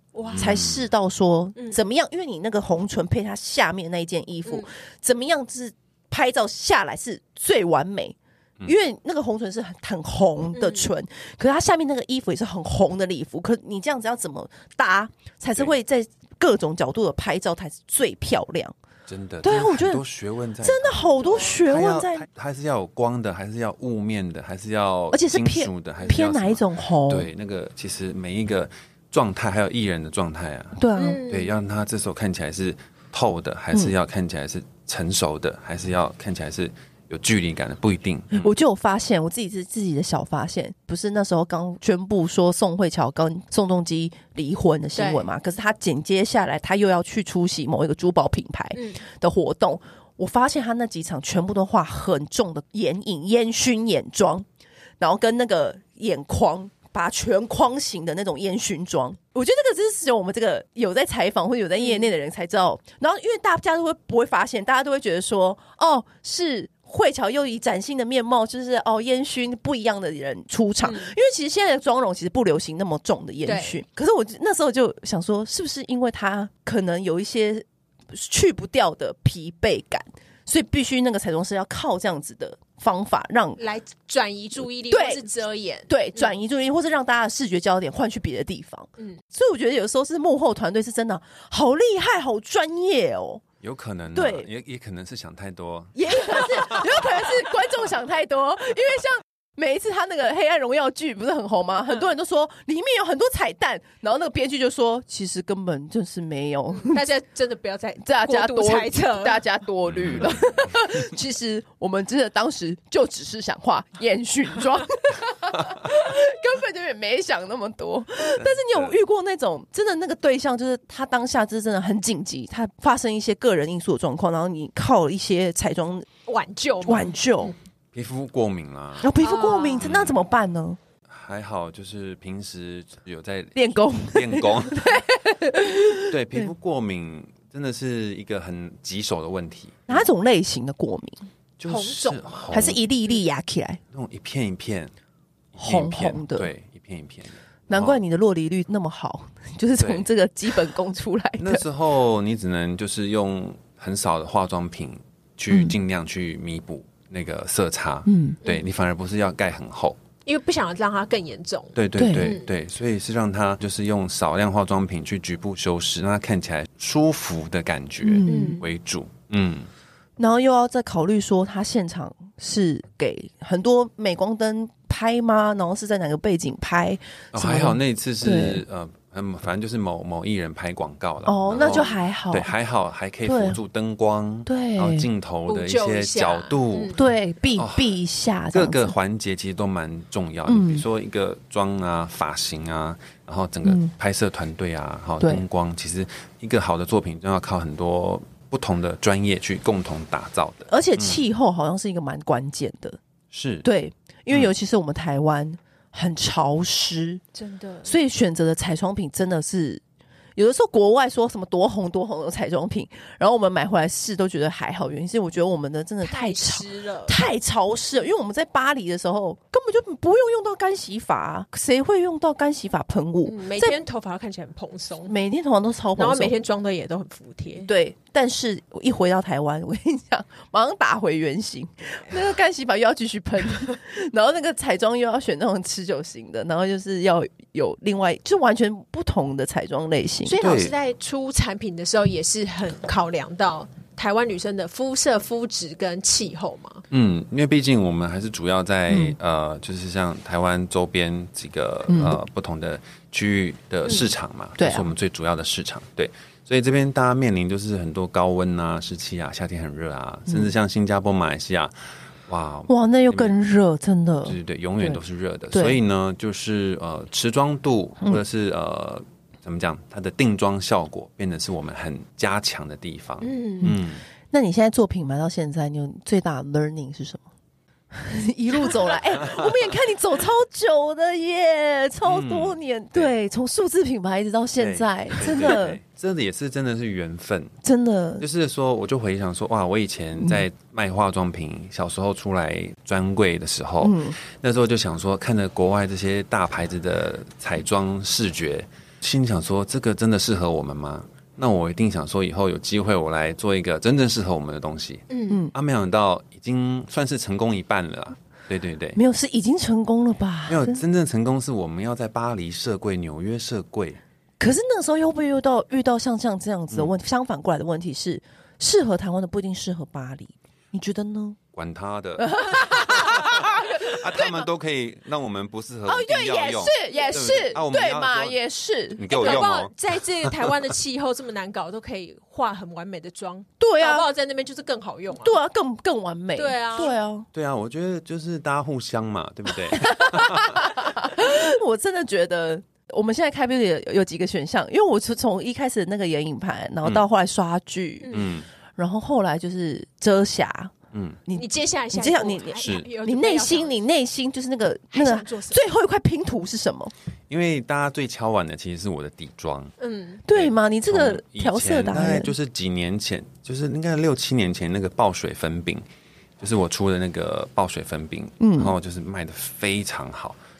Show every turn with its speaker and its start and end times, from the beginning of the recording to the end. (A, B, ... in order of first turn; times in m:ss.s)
0:00.1-0:00.6 A
0:00.3-0:00.9 B
0:00.4-0:18.7 C
0:10.5-0:10.9 A
0:19.1-0:21.0 B
0:19.4-0:20.0 C
0:20.6-0:22.2 C
0:21.6-0:38.5 B
0:25.1-0:27.3 C
0:30.8-0:31.2 C
0:31.0-0:31.5 A
0:38.3-0:54.4 C
0:45.0-0:45.3 A
0:48.7-0:49.0 A
0:55.0-1:23.6 C
1:01.8-1:02.1 A
1:10.8-1:11.1 A
1:13.4-1:13.8 A
1:23.6-1:26.3 A
1:24.9-1:25.3 C
1:25.9-1:33.4 C
1:33.6-1:37.2 B
1:34.1-1:34.5 C
1:35.9-1:47.0 C
1:46.7-1:49.4 A
1:48.0-2:06.1 C
1:49.9-1:50.4 B
1:58.4-1:59.0 B
2:06.2-2:07.5 A
2:06.8-2:07.5 C
2:07.9-2:09.1 B
2:09.0-2:10.8 C
2:09.2-2:09.9 A
2:09.8-2:10.2 B
2:11.1-2:15.0 B
2:13.5-2:16.5 C
2:16.1-2:20.0 B
2:19.9-2:21.2 C
2:21.6-2:22.8 B
2:21.7-2:22.5 A
2:22.5-2:23.8 C
2:23.9-2:24.9 B
2:25.5-2:28.0 B
2:25.6-2:26.5 C
2:27.7-2:31.6 C
2:29.8-2:30.0 B
2:31.4-2:40.0 B
2:38.0-2:38.4 C
2:40.2-2:42.4 A
2:41.7-2:49.7 B
2:42.0-2:42.4 C
2:48.0-2:48.6 C
2:48.2-2:48.6 A
2:50.2-2:58.6 C
2:57.3-3:07.0 B
3:01.2-3:02.5 C
3:01.5-3:02.0 A
3:03.2-3:03.6 C
3:04.4-3:05.1 C
3:05.5-3:07.0 A
3:06.9-3:08.9 C
3:07.6-3:08.0 B
3:08.5-3:21.2 B
3:10.5-3:10.8 C
3:13.6-3:13.9 C
3:20.7-3:23.0 C
3:23.3-3:23.6 B
3:23.6-3:27.2 C
3:27.3-3:27.9 A
3:27.8-3:29.8 C
3:30.4-3:43.8 C
3:36.0-3:37.2 A
3:43.2-3:45.1 A
3:45.1-3:46.3 C
3:46.0-3:47.7 A
3:47.6-4:00.4 C
4:00.2-4:06.8 A
4:00.4-4:00.7 B
4:06.9-4:21.7 B
4:08.9-4:09.2 C
4:11.9-4:12.2 C
4:13.8-4:14.1 A
4:14.6-4:14.8 C
4:22.2-4:23.4 B
4:22.7-4:25.0 C
4:24.2-4:34.0 B
4:25.5-4:25.8 C
4:33.2-4:33.8 A
4:33.6-4:37.2 C
4:37.9-4:45.8 C
4:39.2-4:39.6 B
4:42.0-4:43.1 B
4:44.6-4:47.5 B
4:47.6-4:48.2 C
4:48.2-5:09.0 B
4:53.8-4:54.2 C
5:05.1-5:05.4 A
5:05.3-5:05.5 C
5:09.0-5:10.8 C
5:10.5-5:14.0 B
5:14.4-5:21.4 C
5:21.5-5:28.4 B
5:22.2-5:24.4 C
5:25.9-5:29.5 C
5:26.7-5:27.6 A
5:28.9-5:30.6 B
5:29.1-5:35.4 A
5:33.6-5:34.1 C
5:35.2-5:37.3 C
5:36.4-5:37.0 A
5:37.3-5:40.9 B
5:39.7-5:48.2 C
5:48.0-5:48.3 A
5:48.1-5:48.5 B
5:48.8-5:50.7 C
5:50.9-5:51.2 B
5:51.2-5:56.9 C
5:51.3-5:53.8 A
5:52.6-5:52.9 B
5:54.9-5:55.6 A
5:57.3-5:59.7 B
5:59.8-6:00.2 A
6:00.2-6:02.3 C
6:00.3-6:05.8 B
6:06.4-6:10.4 B
6:08.4-6:08.7 C